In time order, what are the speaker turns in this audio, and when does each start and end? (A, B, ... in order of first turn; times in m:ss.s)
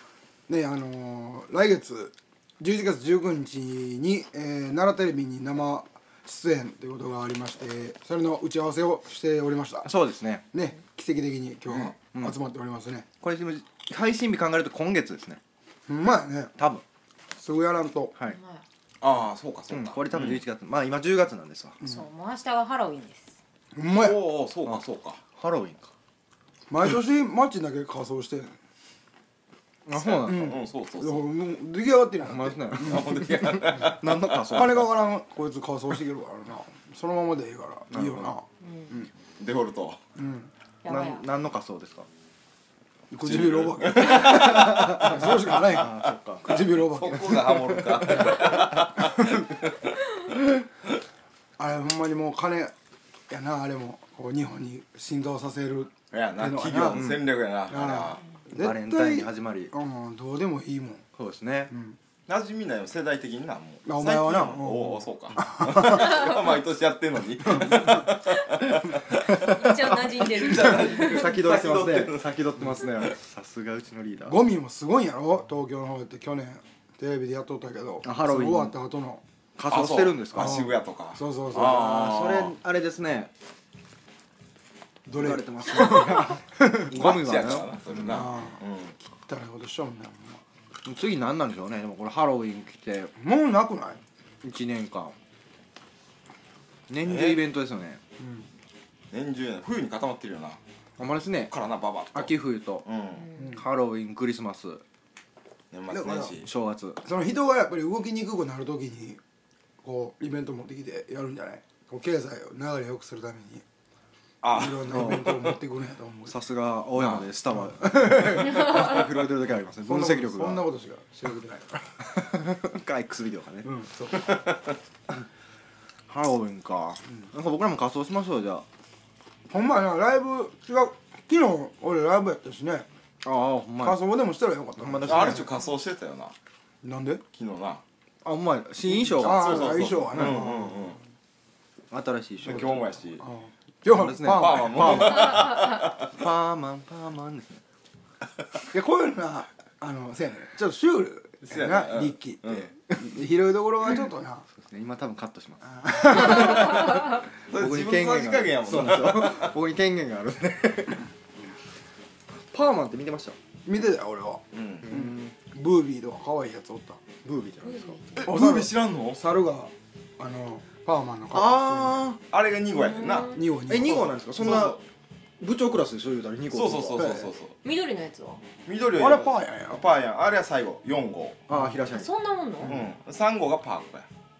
0:00.5-0:09.9 A
0:09.8-0:10.4 B
0:10.5-0:13.0 A
0:13.2-0:15.4 B
0:15.9-0:16.5 A
0:16.6-0:16.8 B
0:17.4-0:18.1 A
0:18.2-0:18.6 C
0:19.0-0:20.4 D
0:19.7-0:21.8 B
0:21.8-0:23.4 C
0:23.7-0:24.2 A
0:23.9-0:25.2 D
0:25.4-0:25.9 B
0:26.7-0:28.5 A
0:29.8-0:30.6 B
0:29.9-0:31.2 D
0:30.2-0:33.1 A
0:32.2-0:34.9 B
0:32.8-0:34.5 D
0:34.5-0:39.1 A
0:37.9-0:38.3 B
0:38.6-0:38.9 C
0:39.4-0:40.0 D
0:40.2-0:40.5 A
0:40.8-0:41.2 C
0:40.9-0:42.1 B
0:43.1-0:47.5 A
0:43.2-0:45.8 D
0:44.0-0:46.5 B
0:46.8-0:49.9 D
0:47.1-0:48.9 B
0:51.6-0:52.7 A
0:53.3-0:57.1 A
0:56.1-0:58.2 D
0:56.9-0:57.2 B
0:57.7-1:01.0 A
0:58.5-0:59.7 B
1:01.2-1:01.7 B
1:01.7-1:02.0 A
1:02.3-1:09.5 D
1:03.8-1:06.2 A
1:07.5-1:08.0 A
1:09.3-1:11.4 C
1:09.4-1:14.4 B
1:10.2-1:12.9 D
1:14.2-1:19.2 A
1:18.0-1:18.8 B
1:19.6-1:20.6 B
1:19.7-1:22.6 D
1:20.3-1:22.0 A
1:21.6-1:23.3 B
1:25.1-1:26.9 A
1:25.1-1:28.2 B
1:26.9-1:29.0 D
1:28.0-1:28.6 A
1:29.1-1:30.4 A
1:30.8-1:33.1 B
1:33.2-1:34.0 A
1:34.4-1:35.2 B
1:36.9-1:38.0 B
1:37.0-1:37.4 D
1:38.2-1:38.4 A
1:39.1-1:40.6 D
1:41.0-1:41.5 B
1:41.5-1:43.3 D
1:42.1-1:42.8 B
1:43.4-1:44.8 B
1:45.7-1:46.5 D
1:45.9-1:46.4 A
1:46.4-1:47.0 B
1:47.0-1:49.2 A
1:49.8-1:53.6 A
1:54.4-1:55.4 D
1:54.5-1:56.4 A
1:54.9-1:55.5 B
1:56.2-2:00.6 B
1:57.5-1:58.9 A
1:59.8-2:01.8 A
2:02.1-2:03.7 B
2:03.6-2:04.2 A
2:06.1-2:08.6 B
2:09.5-2:12.9 A
2:13.2-2:14.0 B
2:13.8-2:15.4 A
2:14.8-2:15.5 B
2:15.0-2:16.3 D
2:16.8-2:17.2 A
2:17.3-2:17.8 D
2:18.2-2:20.4 B
2:19.0-2:21.0 D
2:19.1-2:20.8 A
2:21.9-2:22.9 B
2:22.4-2:23.2 D
2:23.2-2:25.1 A
2:23.8-2:27.6 B
2:24.2-2:26.1 D
2:28.7-2:34.4 A
2:31.5-2:32.7 D
2:34.5-2:37.0 B
2:35.7-2:36.9 A
2:37.5-2:39.5 D
2:37.5-2:41.0 B
2:42.5-2:43.4 B
2:43.6-2:47.0 A
2:44.5-2:44.9 D
2:44.8-2:45.3 B
2:47.2-2:48.0 B
2:47.6-2:48.3 C
2:48.2-2:49.2 D
2:48.2-2:52.0 A
2:51.3-2:52.2 B
2:52.3-2:53.4 D
2:52.7-2:53.4 C
2:53.3-2:54.7 A
2:53.7-2:54.8 B
2:54.4-2:54.8 D
2:55.4-2:57.2 B
2:56.5-2:57.5 D
2:57.0-2:57.3 A
2:57.6-2:58.4 C
2:58.6-3:01.4 D
2:59.0-2:59.8 A
3:01.5-3:01.8 A
3:01.5-3:02.1 B
3:01.9-3:02.8 C
3:02.6-3:04.1 D